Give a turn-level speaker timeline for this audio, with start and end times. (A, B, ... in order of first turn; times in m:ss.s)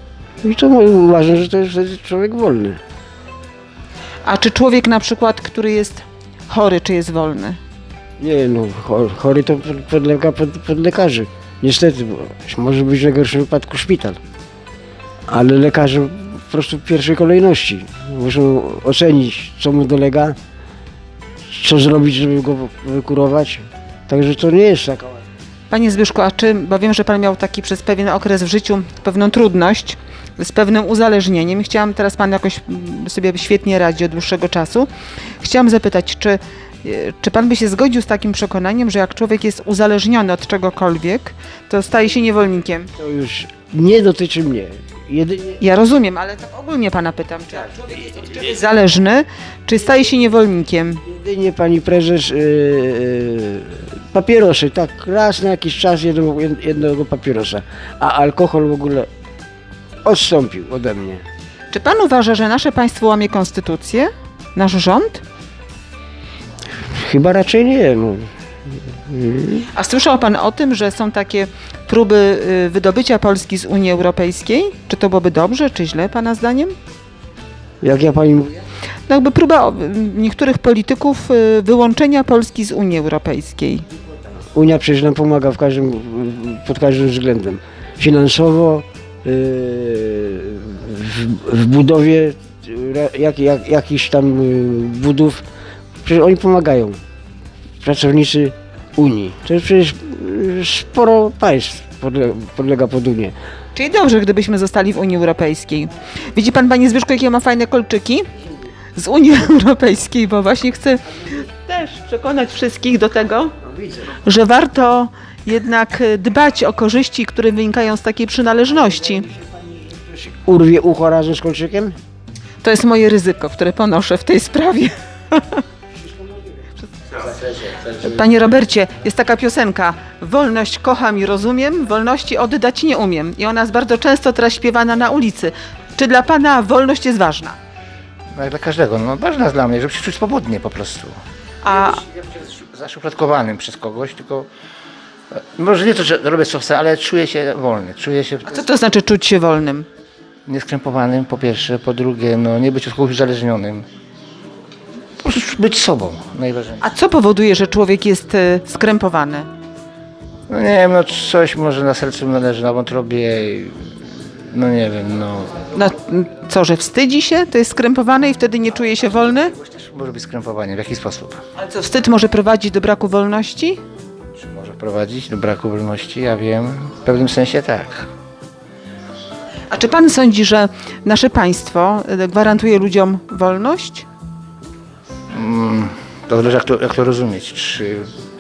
0:00.4-0:02.8 A
0:04.2-0:07.6 B
0:08.2-0:14.2 A
0:15.3-0:20.4 A
0:21.5-0:25.2 A
0:25.7-0:34.9 B
0:35.4-0:42.9 B
0:43.0-0:45.6 A
0:45.6-0:51.0 B
0:51.1-0:59.1 A
1:00.0-1:01.2 A
1:01.7-1:05.2 B
1:06.9-1:09.6 A
1:09.7-1:16.8 B
1:17.8-1:18.6 A
1:19.1-1:23.9 B
1:24.5-1:35.4 A
1:36.0-1:37.0 A
1:37.8-1:43.4 A
1:43.8-1:48.3 B
1:49.0-1:53.5 B
1:54.2-1:59.3 B
1:59.4-2:02.0 A
2:02.6-2:05.6 B
2:07.8-2:17.6 B
2:18.4-2:21.1 C
2:21.6-2:22.0 B
2:21.9-2:24.5 C
2:25.3-2:28.6 C
2:28.5-2:29.9 B
2:30.5-2:33.8 C
2:35.2-2:36.8 C
2:36.8-2:39.5 B
2:40.5-2:43.9 C
2:44.5-2:45.6 C
2:45.7-2:49.5 B
2:49.5-2:51.4 C
2:51.6-2:53.8 B
2:54.4-2:58.1 C
2:59.7-3:04.1 B
3:05.3-3:08.1 C